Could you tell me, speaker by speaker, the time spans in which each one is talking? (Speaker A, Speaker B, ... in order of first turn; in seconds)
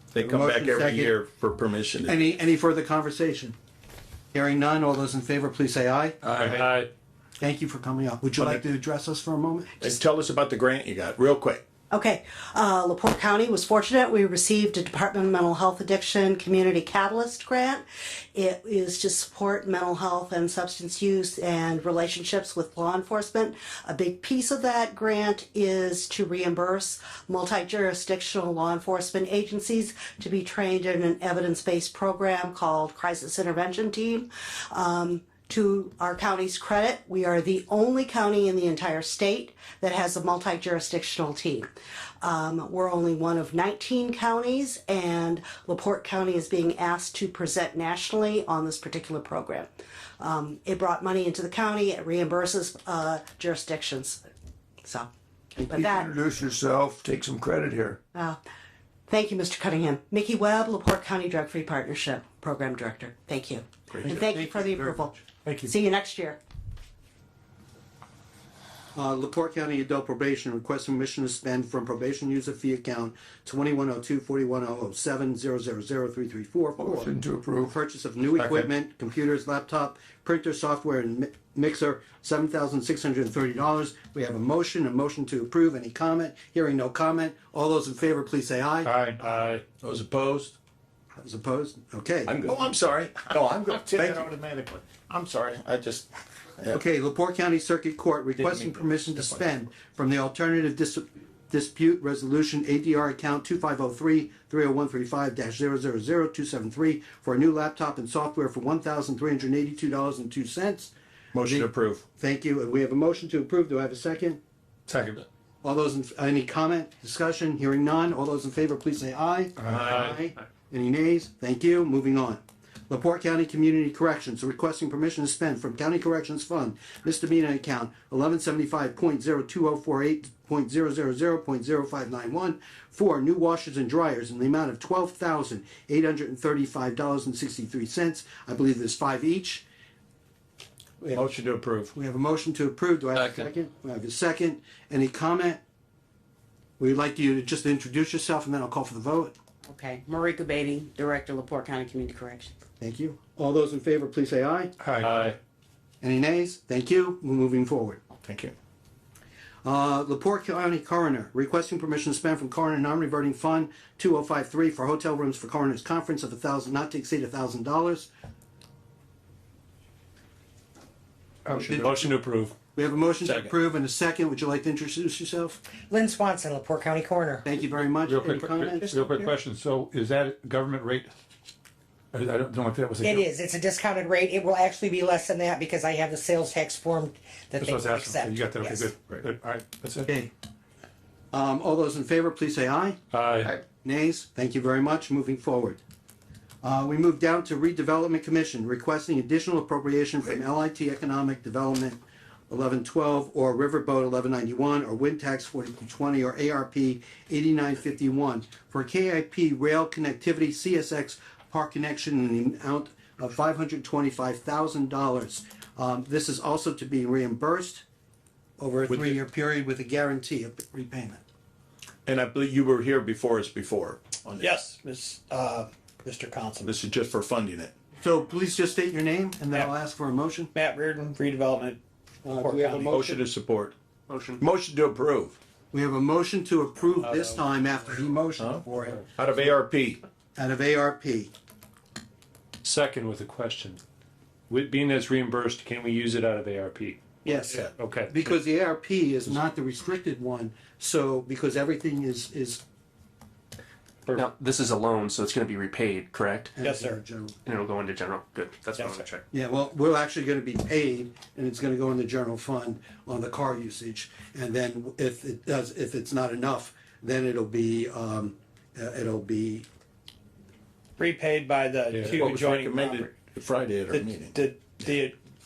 Speaker A: 0.1-2.2, 9.8-11.6, 89.3-90.5, 92.3-96.0, 98.4-99.5, 111.3-112.0, 141.1-141.9, 158.2-158.5, 173.2-173.5, 218.9-219.2, 222.1-224.6, 226.6-227.7, 232.9-233.7, 234.4-235.4, 239.2-240.0, 272.0-274.4
Speaker B: 0.2-1.2, 2.0-3.5, 4.3-6.5, 7.4-9.7, 64.0-65.5, 68.9-88.9, 91.2-92.5, 96.7-114.4, 115.6-139.6, 141.0-141.4, 141.9-145.6, 146.8-149.3, 152.8-154.7, 156.0-158.0, 159.6-168.1, 171.5-172.1, 172.7-175.6, 177.4-179.3, 191.3-193.0, 193.8-195.8, 196.6-217.8, 218.6-221.2, 228.0-230.5, 232.2-233.2, 235.7-239.0, 240.3-241.3, 247.2-252.6, 256.5-257.4, 259.3-269.7
Speaker C: 6.3-6.9, 89.2-89.6, 171.7-172.5, 193.1-193.5, 237.0-237.9, 242.6-243.8, 244.5-247.0, 247.5-248.1
Speaker D: 11.9-17.8, 18.3-41.7, 42.2-49.7, 50.2-54.2, 55.6-56.1, 59.1-66.4
Speaker E: 55.6-58.0, 76.8-77.7, 78.4-78.7
Speaker F: 88.8-89.2, 114.9-115.2, 154.8-155.2, 178.1-181.1, 182.1-183.2, 187.6-190.1
Speaker G: 149.7-152.5
Speaker H: 175.9-177.4, 183.0-188.9
Speaker I: 224.4-226.7, 230.5-231.8, 232.3-232.9, 256.6-257.0, 271.0-273.1, 273.9-275.1
Speaker J: 234.1-234.4, 254.1-256.6, 257.4-259.2